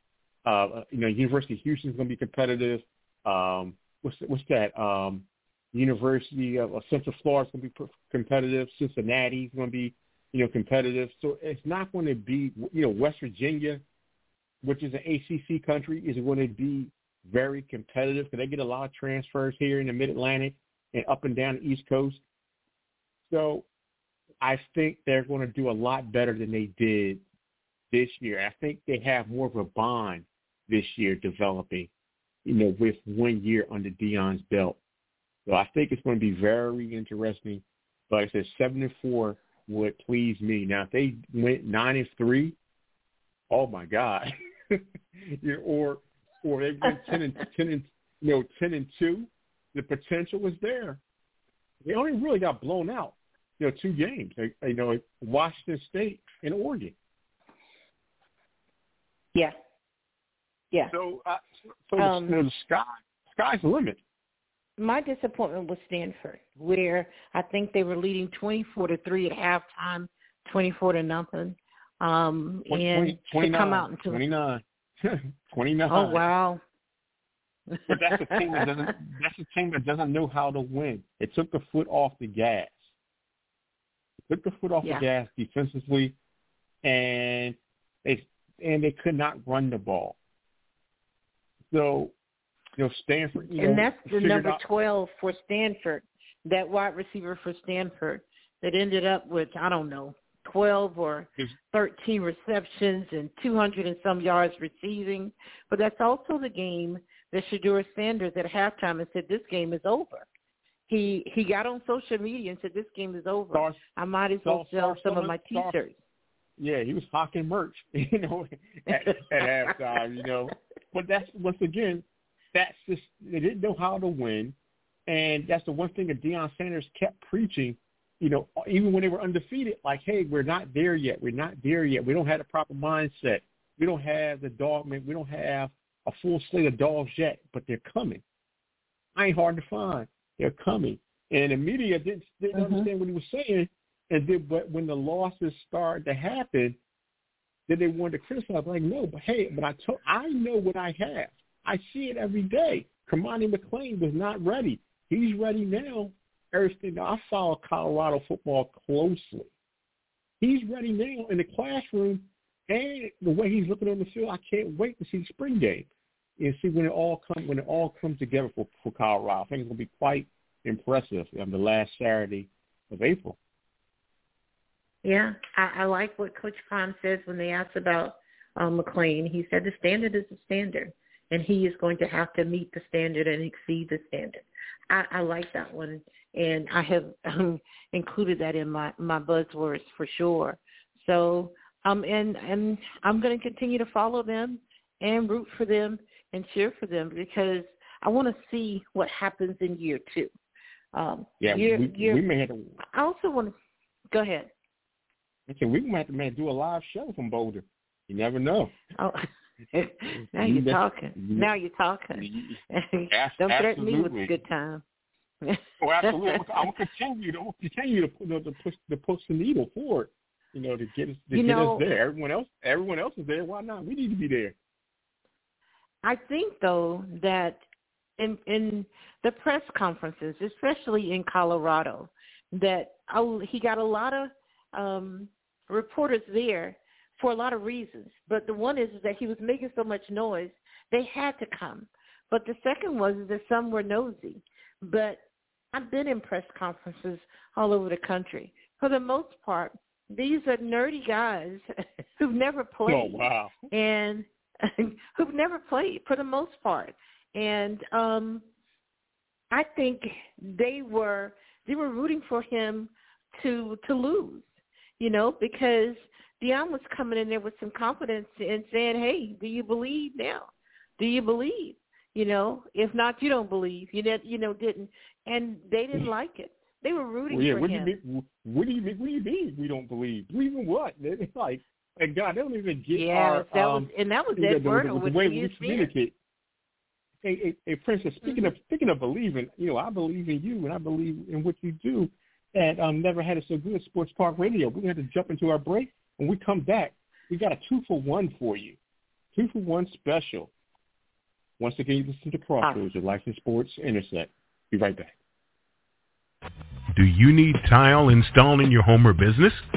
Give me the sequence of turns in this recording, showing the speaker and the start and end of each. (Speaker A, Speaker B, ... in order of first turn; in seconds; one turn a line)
Speaker A: 0.5-13.8
Speaker A: 14.6-22.2
Speaker A: 23.3-23.7
Speaker A: 24.4-27.2
Speaker A: 27.9-31.9
Speaker A: 32.5-34.8
Speaker A: 35.5-42.6
Speaker A: 43.5-51.0
Speaker A: 51.8-57.0
Speaker A: 60.9-64.0
Speaker B: 62.0-62.4
Speaker B: 64.8-74.2
Speaker A: 72.7-76.3
Speaker B: 75.9-76.6
Speaker B: 77.7-78.7
Speaker A: 77.9-82.9
Speaker A: 84.3-86.2
Speaker A: 86.8-90.2
Speaker A: 91.7-92.1
Speaker A: 92.8-94.6
Speaker B: 93.6-110.3
Speaker B: 110.9-116.0
Speaker A: 113.5-113.8
Speaker A: 114.4-115.7
Speaker A: 116.6-124.6
Speaker A: 125.1-138.2
Speaker A: 139.2-146.8
Speaker B: 142.5-142.9
Speaker A: 147.7-159.5
Speaker A: 160.4-173.4
Speaker B: 175.0-200.3
Speaker B: 200.9-202.2
Speaker A: 201.4-202.8
Speaker B: 202.9-203.5
Speaker B: 204.1-204.5
Speaker A: 205.5-208.8
Speaker B: 209.0-214.8
Speaker A: 210.2-211.5
Speaker A: 212.1-214.4
Speaker B: 215.4-216.4
Speaker A: 215.8-224.6
Speaker B: 221.3-221.8
Speaker B: 226.0-227.6
Speaker B: 228.2-245.2
Speaker B: 245.7-251.7
Speaker B: 252.2-258.4
Speaker A: 252.9-253.6
Speaker B: 259.5-264.5
Speaker B: 265.0-278.0
Speaker A: 277.3-286.1
Speaker B: 282.9-285.9
Speaker A: 287.2-298.8
Speaker A: 299.4-300.5
Speaker A: 301.6-305.1
Speaker C: 306.9-309.6